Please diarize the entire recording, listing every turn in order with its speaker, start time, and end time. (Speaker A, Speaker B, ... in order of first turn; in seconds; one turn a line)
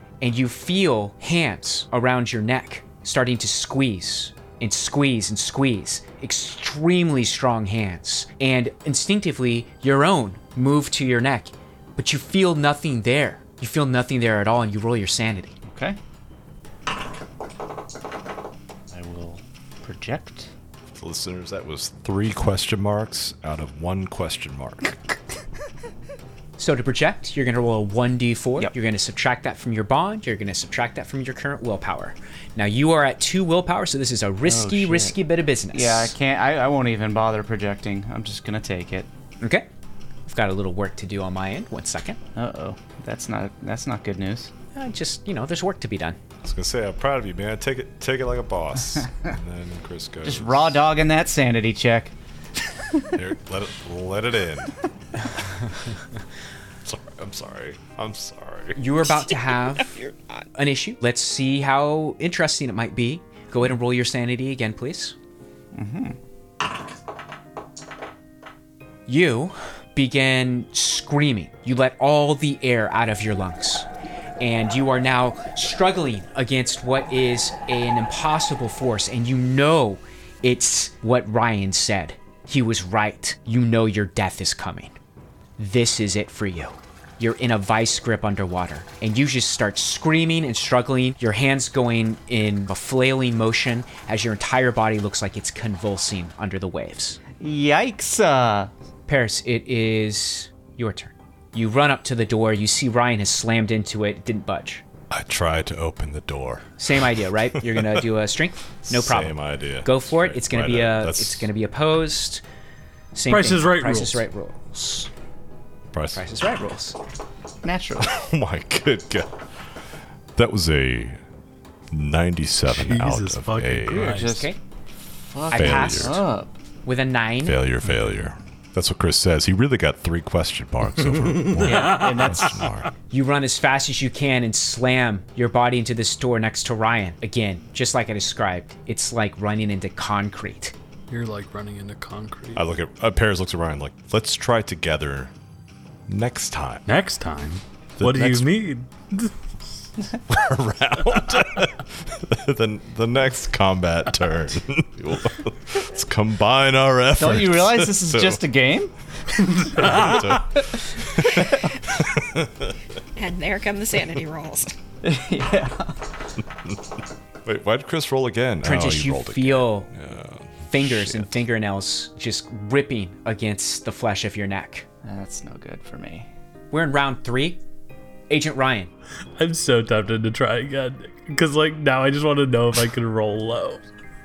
Speaker A: 0.2-15.5
Speaker B: 15.6-16.0
Speaker B: 18.9-20.5
Speaker C: 20.9-24.9
Speaker A: 26.6-36.1
Speaker B: 34.4-35.2
Speaker B: 35.7-39.1
Speaker A: 39.4-39.7
Speaker A: 40.3-42.2
Speaker B: 42.4-44.5
Speaker A: 44.7-46.2
Speaker C: 46.4-50.8
Speaker B: 50.2-52.1
Speaker C: 53.1-54.7
Speaker C: 56.8-58.8
Speaker A: 58.8-60.0
Speaker D: 59.1-60.5
Speaker A: 60.5-65.1
Speaker B: 65.7-66.2
Speaker A: 69.1-73.8
Speaker A: 74.4-85.0
Speaker A: 85.6-97.2
Speaker B: 97.3-98.7
Speaker A: 99.1-104.8
Speaker C: 105.1-108.0
Speaker A: 106.8-112.4
Speaker C: 108.9-111.5
Speaker A: 113.1-115.1
Speaker E: 113.3-114.2
Speaker C: 115.9-116.3
Speaker A: 116.1-117.0
Speaker B: 117.6-118.1
Speaker C: 118.0-119.3
Speaker C: 120.3-121.2
Speaker C: 121.9-124.2
Speaker E: 122.7-124.3
Speaker B: 124.0-126.5
Speaker A: 124.3-124.6
Speaker A: 125.5-126.2
Speaker C: 125.5-126.2
Speaker A: 126.8-127.6
Speaker C: 127.4-132.9
Speaker E: 131.3-132.3
Speaker B: 131.6-132.6
Speaker A: 133.1-140.7
Speaker E: 141.1-142.6
Speaker C: 142.5-145.3
Speaker C: 146.1-146.8
Speaker E: 146.9-149.3
Speaker C: 148.0-148.6
Speaker C: 150.3-158.4
Speaker B: 157.2-158.9
Speaker E: 159.5-160.3
Speaker C: 159.7-162.7
Speaker B: 161.3-161.7
Speaker D: 163.2-164.7
Speaker B: 165.0-166.0
Speaker C: 167.4-171.4
Speaker A: 168.6-169.9
Speaker A: 170.7-174.8
Speaker B: 175.0-176.3
Speaker A: 176.7-177.6
Speaker A: 178.3-178.9
Speaker E: 179.4-183.8